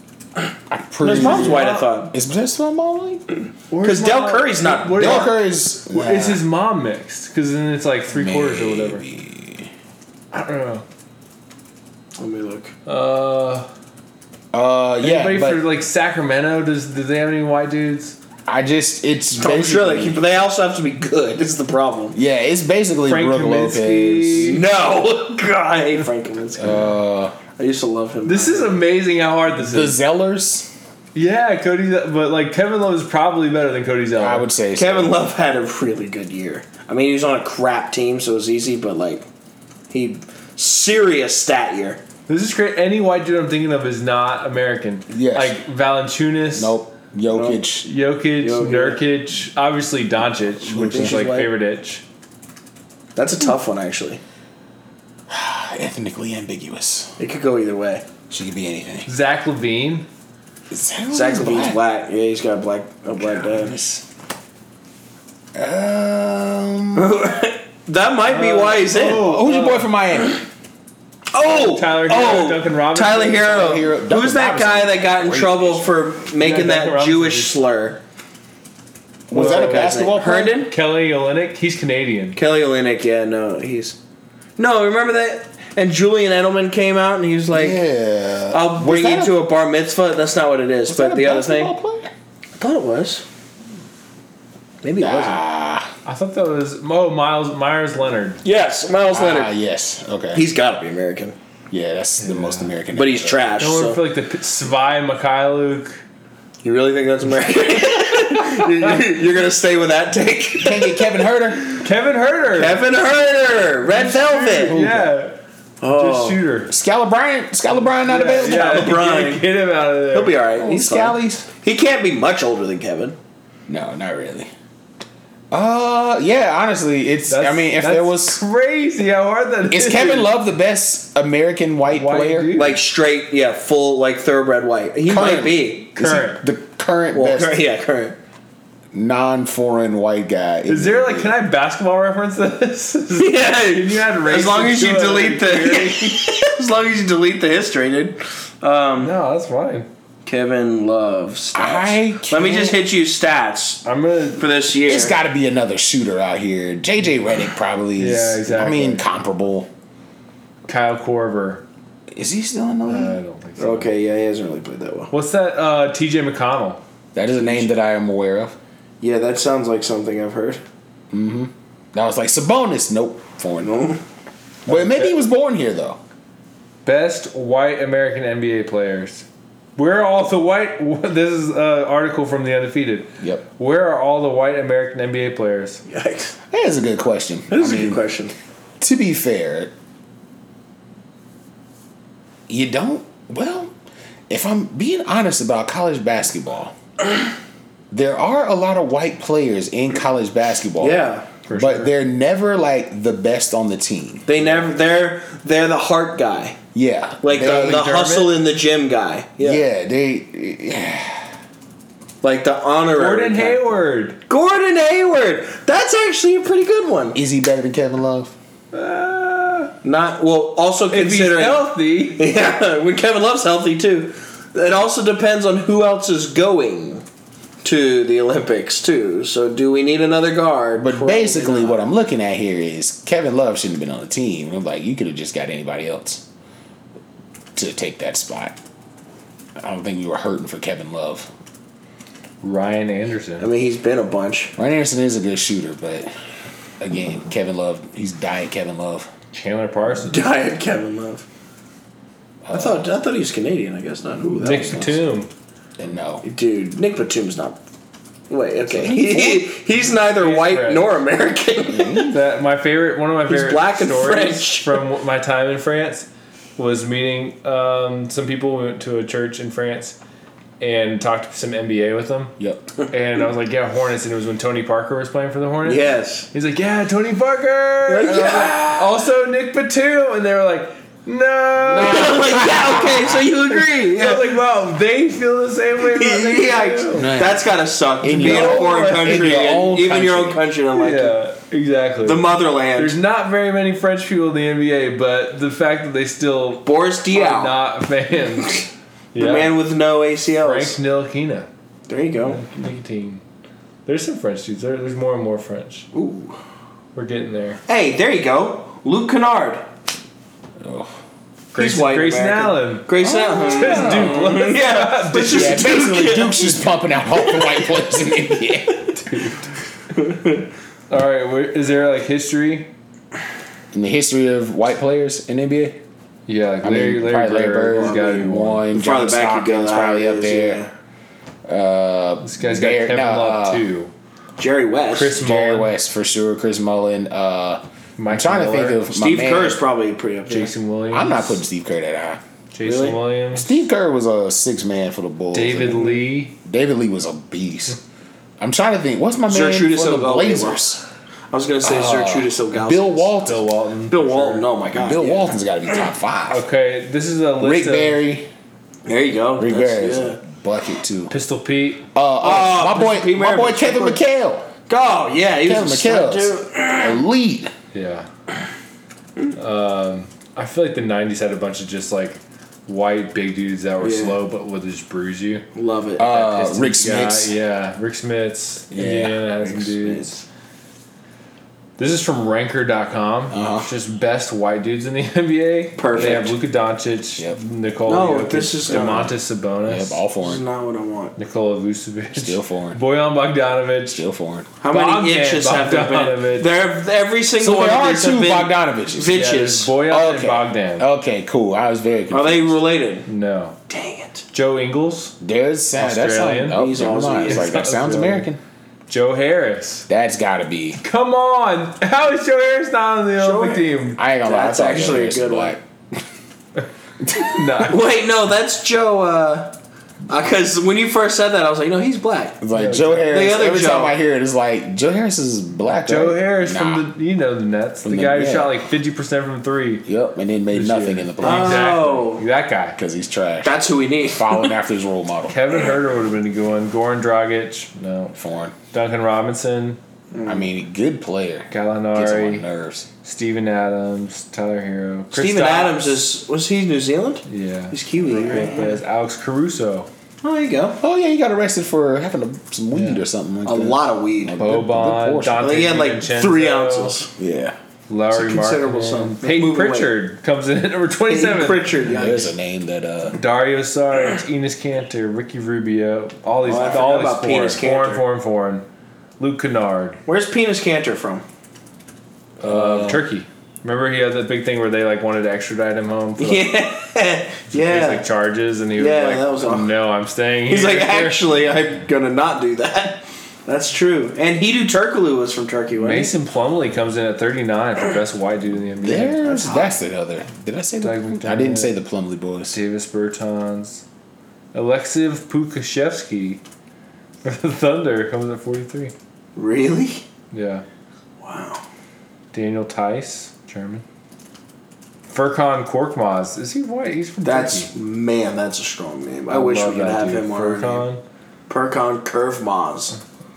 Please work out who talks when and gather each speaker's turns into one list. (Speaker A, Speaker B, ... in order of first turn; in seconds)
Speaker A: 0.7-3.2, 5.0-6.4, 8.1-9.7, 14.5-15.6, 18.5-20.2, 22.1-24.6, 26.6-27.4, 29.6-30.7, 34.2-35.2, 45.1-45.6, 46.5-47.9, 50.7-51.3, 55.3-57.1, 58.3-59.1, 60.7-61.8, 63.2-64.0, 65.5-67.1, 69.0-70.4, 73.4-75.9, 79.3-80.6, 87.5-89.3, 90.9-92.1, 95.0-95.9, 99.1-100.4, 101.7-103.6, 110.6-111.6, 114.6-115.1, 116.7-118.9, 120.6-121.5, 123.7-124.5, 125.5-128.4, 129.7-132.5, 135.1-137.6, 138.9-141.3, 151.6-152.8, 154.9-159.7, 162.1-163.2, 167.2-168.6, 171.1-173.7, 174.7-176.0, 186.5-188.0, 188.8-189.7, 192.5-193.7, 194.3-196.8, 197.9-204.3, 206.7-207.9, 209.4-211.3, 217.1-218.3, 230.8-236.2, 237.6-238.6, 239.6-241.3, 244.6-246.1, 246.8-249.1, 252.4-252.9, 255.8-256.2, 258.7-259.5, 261.7-262.2, 272.4-272.7, 281.6-283.1, 286.9-287.4, 288.0-290.4, 310.6-310.9, 313.0-314.3, 315.2-318.9, 323.7-325.8, 326.6-330.6, 331.5-333.7, 335.2-339.6, 340.9-342.2, 343.3-347.8, 348.4-350.8, 351.6-353.4, 354.8-356.4, 357.4-358.3, 359.4-361.1, 361.9-364.5, 365.4-367.5, 376.0-377.3, 378.7-379.2, 383.3-383.7, 388.8-389.1, 389.6-390.4, 392.1-392.8, 393.9-394.5, 397.4-399.2, 399.8-402.6, 405.2-408.4, 409.9-410.8, 414.0-416.0, 417.0-417.4, 422.4-426.9, 427.8-428.6, 429.9-431.8, 432.8-435.4, 438.1-438.6, 440.2-442.9, 450.8-455.5, 457.2-457.6, 461.9-463.2, 472.4-473.0, 488.8-492.6
Speaker B: 1.0-2.1, 3.8-5.3, 12.2-12.7, 19.4-22.2, 24.4-26.9, 27.6-28.8, 34.8-39.3, 39.9-42.0, 47.3-47.6, 48.4-49.0, 50.8-51.5, 53.2-54.2, 57.2-58.0, 61.1-63.8, 67.0-69.3, 71.3-78.0, 79.3-80.7, 82.3-84.0, 84.6-87.8, 88.5-91.7, 92.6-93.2, 94.8-95.4, 98.4-99.5, 100.3-101.4, 102.9-104.0, 106.6-111.8, 112.5-114.8, 115.8-116.4, 118.4-119.5, 120.1-123.2, 132.6-135.9, 137.1-138.2, 143.2-149.1, 150.3-153.8, 154.4-155.2, 163.6-165.1, 169.0-170.6, 173.6-174.0, 185.9-186.4, 187.5-188.3, 200.8-201.3, 204.3-206.6, 207.2-209.6, 212.2-217.2, 219.8-227.0, 227.6-231.8, 243.4-244.5, 250.1-251.2, 252.5-255.0, 256.2-257.6, 258.3-262.1, 263.3-264.8, 275.6-276.3, 277.9-278.9, 281.8-284.3, 285.9-291.2, 292.0-293.0, 296.6-297.6, 299.2-300.8, 301.9-302.4, 305.9-306.4, 307.7-309.6, 311.6-316.6, 317.2-317.6, 319.9-320.5, 327.7-330.7, 334.4-335.1, 338.9-340.5, 342.6-343.0, 349.3-350.6, 351.3-353.1, 353.9-355.3, 358.9-360.2, 362.2-364.0, 364.7-367.0, 373.8-374.2, 375.6-376.1, 379.4-380.2, 385.8-386.4, 387.9-389.1, 390.2-391.1, 394.6-399.7, 402.1-403.1, 403.7-404.2, 406.5-407.6, 413.2-413.7, 414.2-415.6, 417.6-419.6, 420.1-422.4, 423.1-423.9, 431.2-432.2, 433.4-434.6, 440.1-440.5, 445.1-448.8, 450.2-450.8, 453.4-454.4, 455.4-457.1, 458.1-459.9, 461.1-462.3, 466.4-468.0, 470.1-471.2, 476.2-478.1, 478.8-479.7, 480.5-486.1, 489.2-489.8, 499.4-500.0, 501.2-501.6, 507.2-510.9, 511.5-513.0
Speaker C: 1.0-1.9, 3.7-9.0, 10.3-10.8, 12.9-13.7, 15.0-18.2, 23.1-24.6, 28.2-30.0, 31.1-34.5, 42.3-46.8, 47.9-52.0, 59.1-60.1, 68.2-69.9, 71.4-73.8, 76.4-77.6, 79.3-82.4, 96.0-98.4, 102.2-102.7, 103.6-106.0, 108.6-109.0, 111.8-112.8, 113.9-115.4, 115.9-116.7, 118.0-120.4, 127.3-130.3, 131.9-132.8, 135.9-136.4, 140.7-146.3, 149.0-149.9, 153.8-154.4, 158.0-159.1, 160.7-161.6, 162.9-163.9, 165.1-166.8, 174.7-175.1, 176.8-185.8, 201.5-201.9, 207.4-208.3, 213.0-214.2, 218.7-219.7, 220.9-222.2, 242.4-243.5, 249.3-250.2, 254.4-255.3, 260.0-260.9, 262.1-270.0, 270.6-272.4, 272.9-282.4, 283.6-287.1, 288.1-289.4, 290.8-292.2, 292.8-299.6, 300.4-301.5, 302.2-303.2, 303.9-305.9, 306.9-307.6, 311.5-315.6, 318.9-319.5, 320.9-322.7, 326.3-328.6, 332.2-333.9, 334.9-335.7, 338.0-338.8, 340.3-341.4, 342.5-343.5, 345.3-346.4, 353.2-354.5, 356.3-358.0, 361.1-361.9, 367.7-368.1, 369.3-375.4, 376.0-380.2, 381.8-390.0, 391.2-394.1, 394.7-396.6, 399.1-400.9, 403.1-403.6, 404.3-405.1, 405.8-408.3, 408.9-409.9, 410.8-414.0, 417.1-417.8, 422.5-423.1, 425.8-429.9, 430.5-432.8, 435.3-438.1, 438.7-439.8, 441.5-442.5, 443.0-446.0, 447.3-449.9, 452.7-453.0, 454.4-457.0, 457.9-461.8, 463.1-468.6, 469.2-470.0, 472.4-476.5, 477.5-481.4, 485.8-489.3, 490.8-491.8, 492.5-493.8, 494.5-496.4, 497.2-498.9, 500.3-500.6, 502.3-503.8, 505.1-507.7, 509.3-511.0